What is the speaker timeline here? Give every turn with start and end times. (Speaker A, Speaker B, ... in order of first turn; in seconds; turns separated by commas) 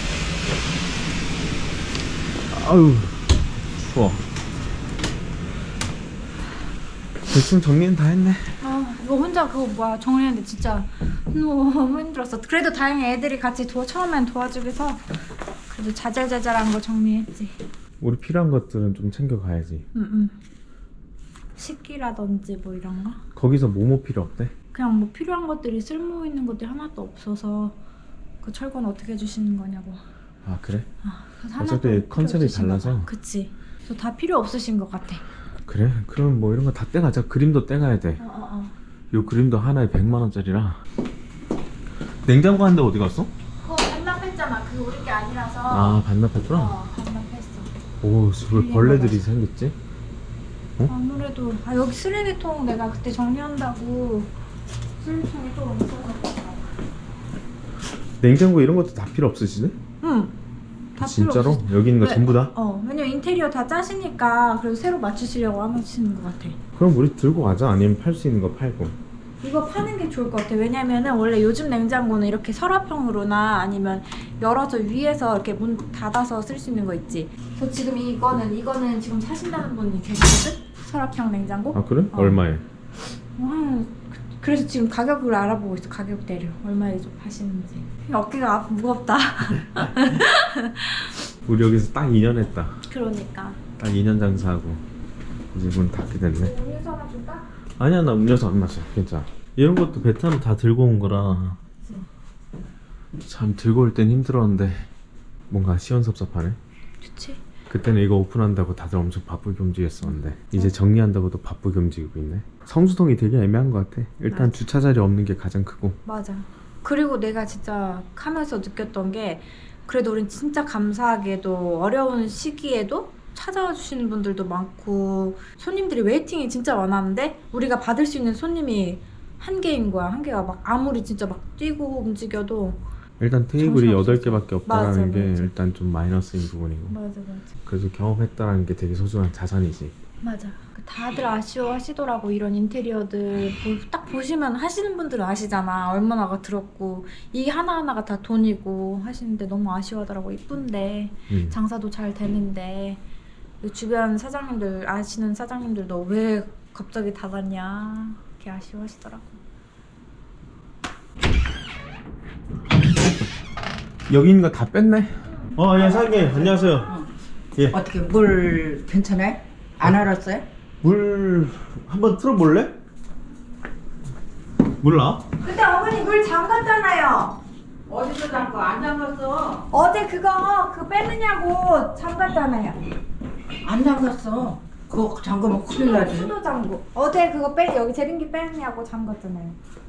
Speaker A: 2.5-4.2, Speaker A: 7.3-8.6, Speaker B: 8.6-15.0, Speaker B: 15.7-17.6, Speaker A: 18.0-19.8, Speaker B: 19.9-20.4, Speaker B: 21.6-23.2, Speaker A: 23.4-24.5, Speaker B: 24.7-27.8, Speaker B: 28.4-30.0, Speaker A: 30.4-30.9, Speaker B: 31.0-35.2, Speaker A: 31.6-33.1, Speaker A: 35.7-38.2, Speaker B: 38.2-38.7, Speaker A: 39.1-40.8, Speaker A: 42.2-43.3, Speaker B: 43.6-46.0, Speaker A: 45.7-46.7, Speaker B: 46.5-47.7, Speaker A: 48.0-49.8, Speaker B: 48.5-49.3, Speaker B: 50.8-54.3, Speaker B: 55.0-56.6, Speaker A: 58.2-59.8, Speaker B: 60.0-60.4, Speaker B: 61.0-66.6, Speaker A: 61.0-62.5, Speaker A: 66.8-68.9, Speaker B: 69.4-82.4, Speaker A: 81.7-82.6, Speaker B: 83.3-91.1, Speaker A: 91.5-92.7, Speaker B: 92.9-93.6, Speaker A: 93.8-94.8, Speaker A: 95.5-96.5, Speaker B: 96.4-97.5, Speaker A: 97.8-101.6, Speaker A: 103.2-104.9, Speaker A: 105.5-106.6, Speaker B: 107.0-107.4, Speaker A: 107.7-116.0, Speaker B: 114.3-114.6, Speaker B: 116.0-132.8, Speaker A: 133.2-137.0, Speaker B: 133.6-135.5, Speaker B: 136.9-137.5, Speaker A: 137.7-139.9, Speaker B: 140.2-153.0, Speaker A: 151.3-151.6, Speaker B: 153.6-159.4, Speaker A: 164.1-166.9, Speaker C: 165.8-167.1, Speaker C: 167.7-170.4, Speaker A: 170.8-172.7, Speaker A: 174.8-175.2, Speaker B: 175.4-177.4, Speaker C: 177.9-179.7, Speaker B: 179.7-182.8, Speaker C: 183.6-186.3, Speaker B: 185.7-189.6